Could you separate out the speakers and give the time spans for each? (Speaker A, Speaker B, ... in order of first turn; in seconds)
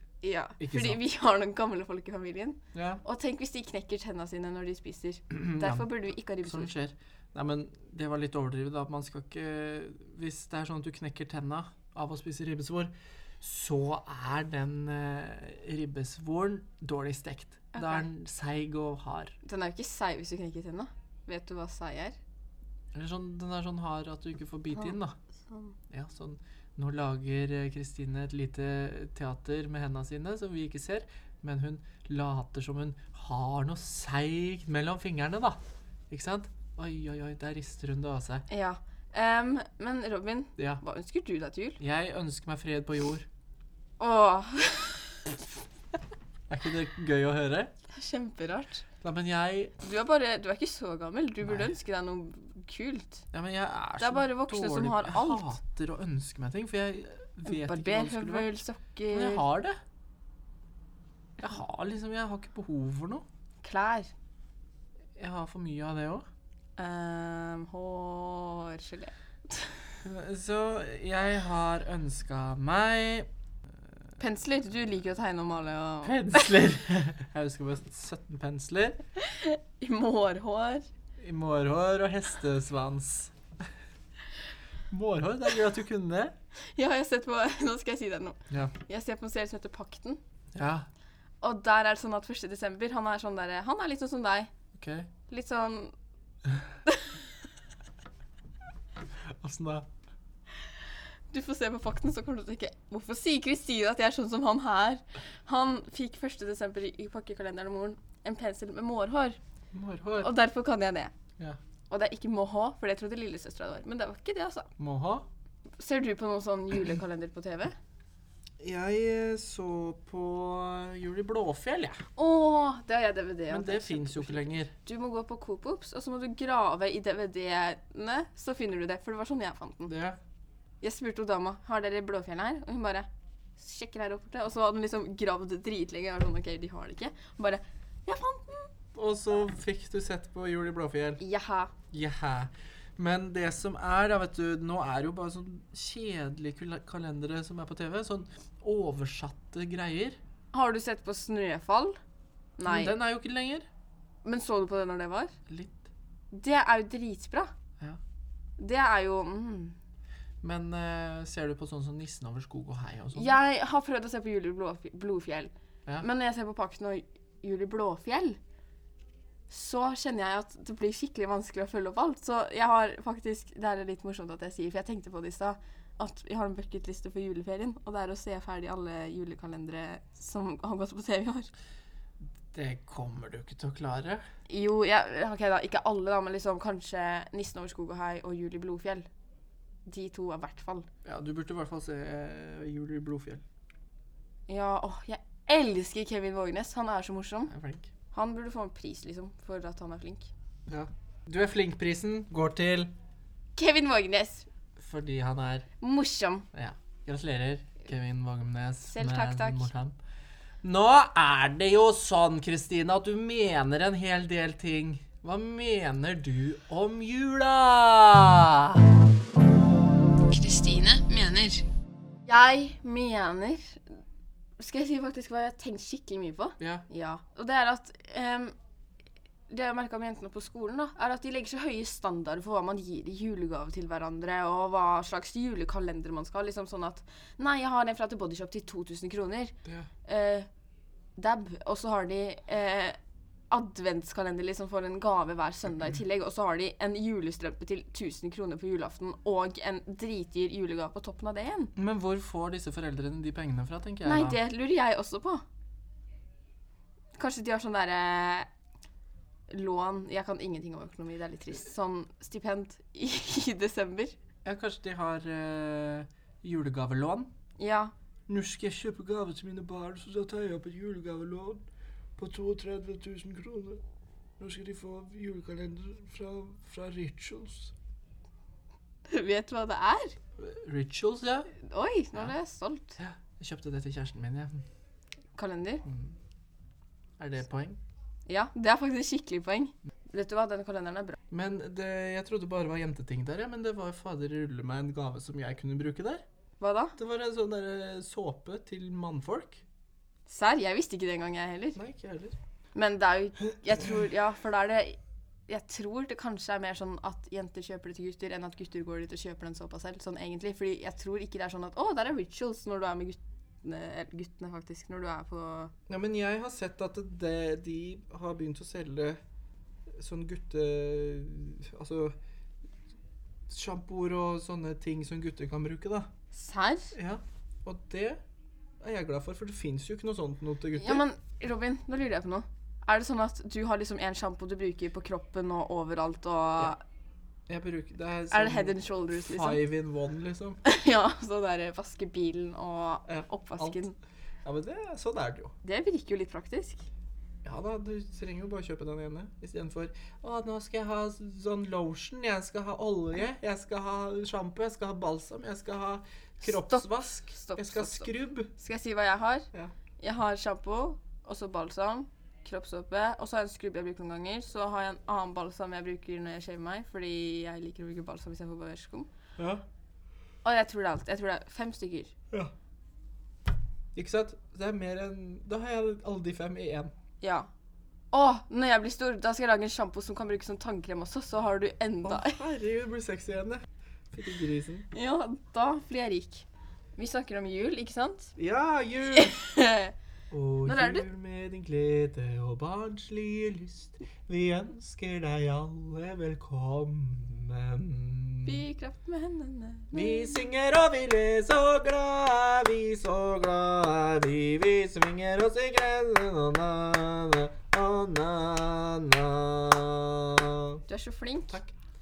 Speaker A: 0.2-6.7, 17.8-18.1, 19.4-22.2, 25.5-25.8, 38.5-41.8, 44.0-45.4, 47.9-48.9, 49.8-53.2, 54.0-55.5, 57.4-59.4, 63.6-64.1, 66.8-69.9, 74.2-76.5, 79.2-80.9, 86.7-90.2, 91.4-94.5, 95.3-95.9, 96.9-97.2, 101.3-109.4, 110.2-111.1, 111.9-114.7, 115.8-117.8, 122.2-129.9, 130.8-138.7, 141.2-141.7, 150.5-152.0, 152.6-152.9, 154.2-155.3, 156.3-157.5, 158.6-159.8, 163.1-168.4, 169.5-181.5, 184.5-189.1, 189.9-190.9, 194.5-197.5, 198.1-200.3, 203.6-204.5, 205.8-206.5, 208.9-209.7, 220.2-221.7, 222.3-223.8, 224.6-228.5, 229.5-240.5, 241.2-243.0, 243.5-251.7, 254.0-255.4, 257.1-258.5, 259.5-264.2, 267.6-267.9, 279.1-280.1, 281.6-283.0, 285.4-285.8, 288.2-291.2, 296.6-296.9, 300.3-301.8, 302.8-315.7, 326.3-326.9, 330.8-336.8, 338.3-339.6, 340.6-344.0, 345.6-346.9, 356.4-359.5, 360.0-369.1, 370.4-372.1, 377.2-377.5, 378.1-382.4, 384.9-388.3, 389.1-389.9, 390.6-391.1, 398.4-400.5, 410.9-411.6
Speaker B: 0.6-1.0, 2.7-3.0, 5.3-19.4, 22.9-25.1, 25.9-38.5, 41.8-43.3, 46.5-47.7, 49.0-49.7, 53.3-58.5, 59.1-59.8, 61.4-63.2, 65.2-66.2, 70.0-73.3, 76.0-79.0, 81.2-83.3, 84.9-86.3, 90.5-90.9, 94.8-95.1, 99.2-99.9, 109.7-110.3, 114.8-115.2, 118.6-122.0, 123.5-124.7, 129.9-130.2, 138.9-141.2, 141.9-150.2, 152.6-153.7, 155.5-155.9, 160.4-163.4, 182.5-184.2, 191.1-193.4, 197.5-197.9, 200.7-202.9, 204.8-205.7, 206.5-209.9, 210.6-218.8, 226.6-226.8, 251.8-254.4, 264.4-267.3, 268.3-271.6, 272.2-273.8, 274.4-277.7, 280.4-281.5, 283.0-284.6, 285.9-286.1, 287.2-287.8, 291.3-296.2, 297.0-299.6, 301.8-302.4, 315.9-319.2, 320.0-322.1, 323.5-326.1, 326.9-328.2, 328.8-331.0, 337.5-340.6, 343.1-343.8, 344.4-345.5, 347.4-358.5, 369.4-369.6, 373.9-376.9, 382.0-384.9, 388.4-389.4, 390.3-398.6, 399.9-410.8